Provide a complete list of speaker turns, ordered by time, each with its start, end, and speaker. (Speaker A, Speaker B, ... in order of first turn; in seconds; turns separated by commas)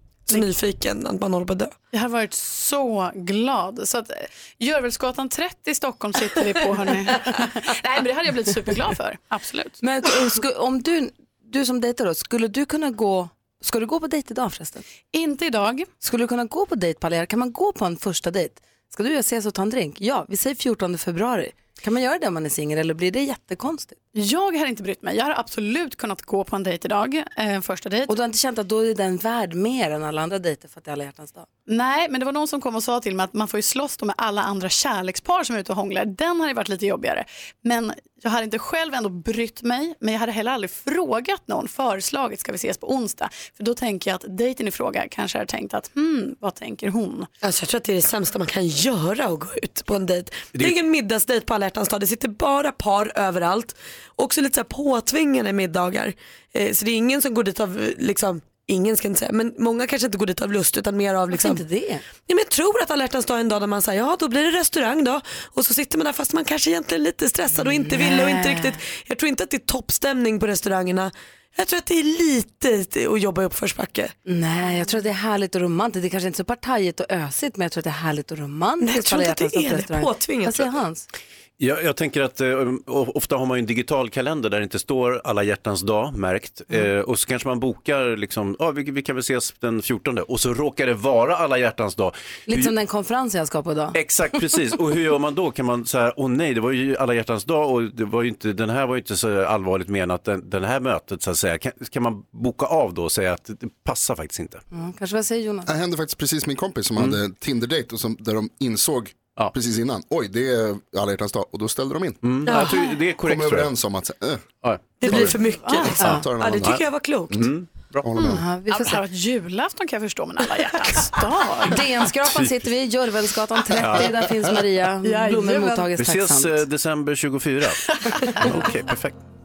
Speaker A: 0.3-1.7, Speaker B: 1.9-9.8, Speaker C: 9.8-14.8, Speaker B: 15.1-15.9, Speaker C: 16.0-24.0, Speaker B: 24.1-28.1, Speaker C: 28.1-31.5, Speaker B: 31.7-47.3, Speaker A: 47.4-61.6, Speaker C: 61.3-62.0, Speaker A: 62.3-74.1, Speaker C: 67.6-68.8, Speaker C: 74.3-81.1, Speaker A: 78.8-80.7, Speaker D: 81.6-92.7, Speaker C: 92.5-94.0, Speaker D: 93.9-104.6, Speaker C: 104.7-105.7, Speaker E: 105.7-112.4, Speaker D: 112.2-113.7, Speaker A: 112.5-112.9, Speaker E: 113.2-114.5, Speaker D: 114.6-115.3, Speaker A: 115.0-117.4, Speaker E: 115.1-115.3, Speaker B: 115.4-116.0, Speaker E: 116.0-116.8, Speaker C: 116.0-116.2, Speaker D: 116.0-118.1, Speaker E: 118.0-118.4, Speaker C: 118.3-119.0, Speaker B: 118.7-121.8, Speaker C: 121.7-126.6, Speaker D: 122.2-122.7, Speaker D: 123.8-124.2, Speaker D: 126.0-129.2